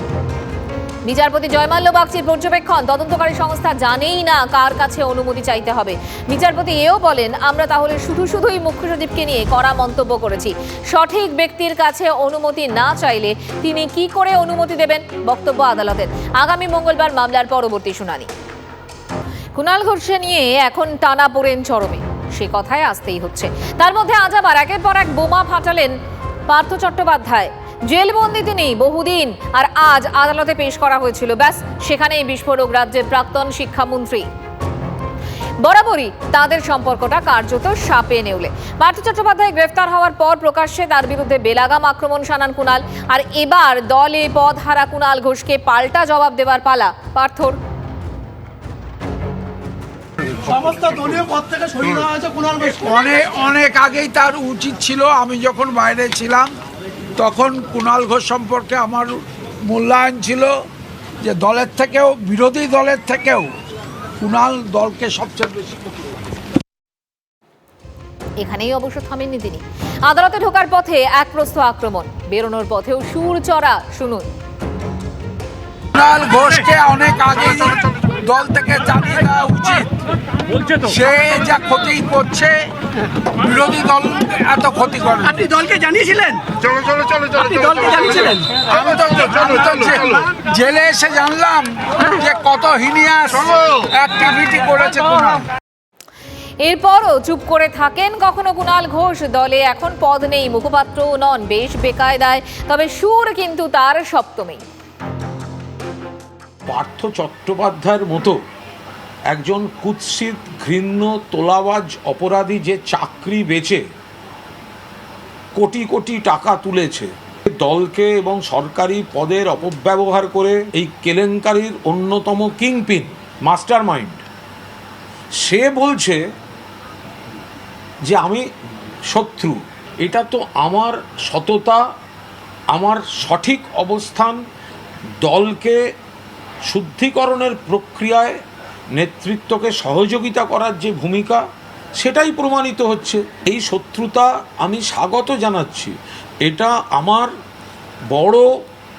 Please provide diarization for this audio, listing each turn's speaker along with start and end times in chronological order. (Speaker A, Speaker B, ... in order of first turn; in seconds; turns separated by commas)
Speaker A: 1.0-18.3, Speaker A: 19.5-25.9, Speaker A: 26.5-34.3, Speaker A: 35.6-47.6, Speaker B: 50.6-51.4, Speaker C: 50.6-52.4, Speaker B: 51.9-56.5, Speaker B: 57.2-60.5, Speaker B: 61.2-63.5, Speaker B: 64.2-65.9, Speaker A: 68.4-74.3, Speaker B: 75.9-79.9, Speaker B: 80.8-82.7, Speaker B: 83.4-85.6, Speaker C: 85.5-86.4, Speaker B: 87.4-95.5, Speaker A: 96.6-104.6, Speaker D: 106.7-108.4, Speaker D: 109.3-113.8, Speaker D: 115.6-124.2, Speaker D: 125.4-126.2, Speaker D: 128.1-128.4, Speaker D: 129.1-131.8, Speaker D: 132.7-134.4, Speaker D: 135.2-135.8, Speaker D: 136.7-138.4, Speaker D: 139.0-141.4, Speaker D: 142.0-147.3, Speaker D: 148.1-148.5